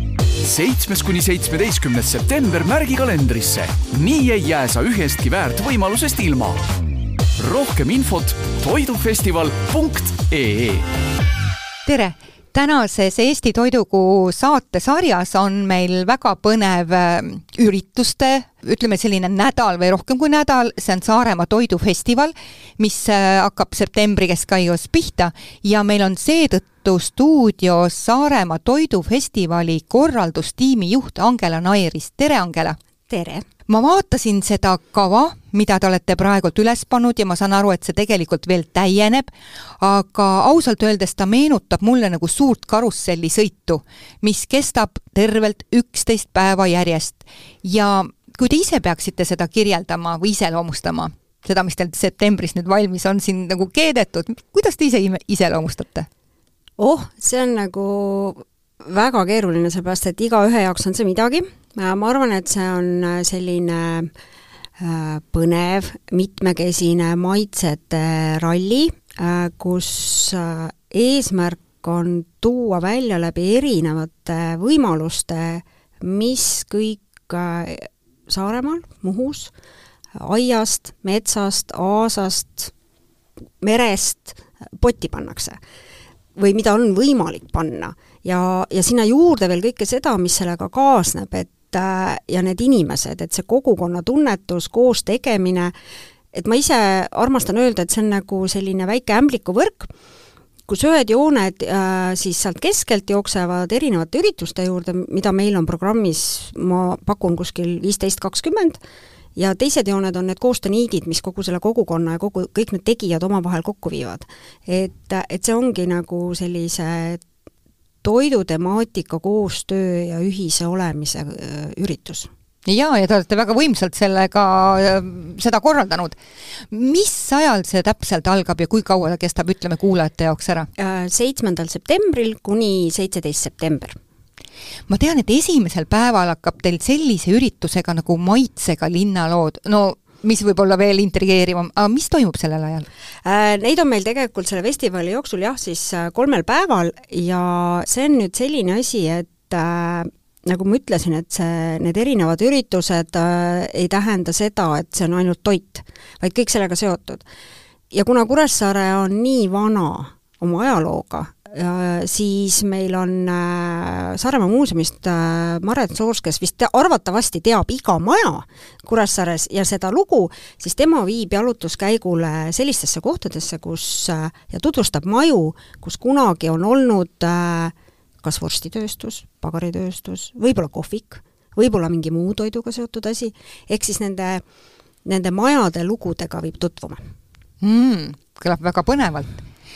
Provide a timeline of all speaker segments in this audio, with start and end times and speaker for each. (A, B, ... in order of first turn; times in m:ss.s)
0:00.4-0:06.7 A
0:07.4-0:10.9 A
0:11.9-0:32.8 B
0:33.1-0:33.5 C
0:33.7-0:56.1 B
0:56.8-1:04.1 C
1:04.8-1:19.5 C
1:20.2-1:22.7 C
1:23.6-1:25.6 C
1:26.4-1:35.7 C
1:36.3-1:39.9 C
1:40.7-1:48.8 C
1:49.4-1:57.2 C
1:58.0-2:02.3 C
2:02.7-2:06.2 B
2:06.7-2:10.7 B
2:10.8-2:14.0 C
2:14.9-2:22.9 B
2:23.2-2:37.2 C
2:37.9-3:04.4 C
3:05.0-3:07.0 C
3:07.6-3:09.4 B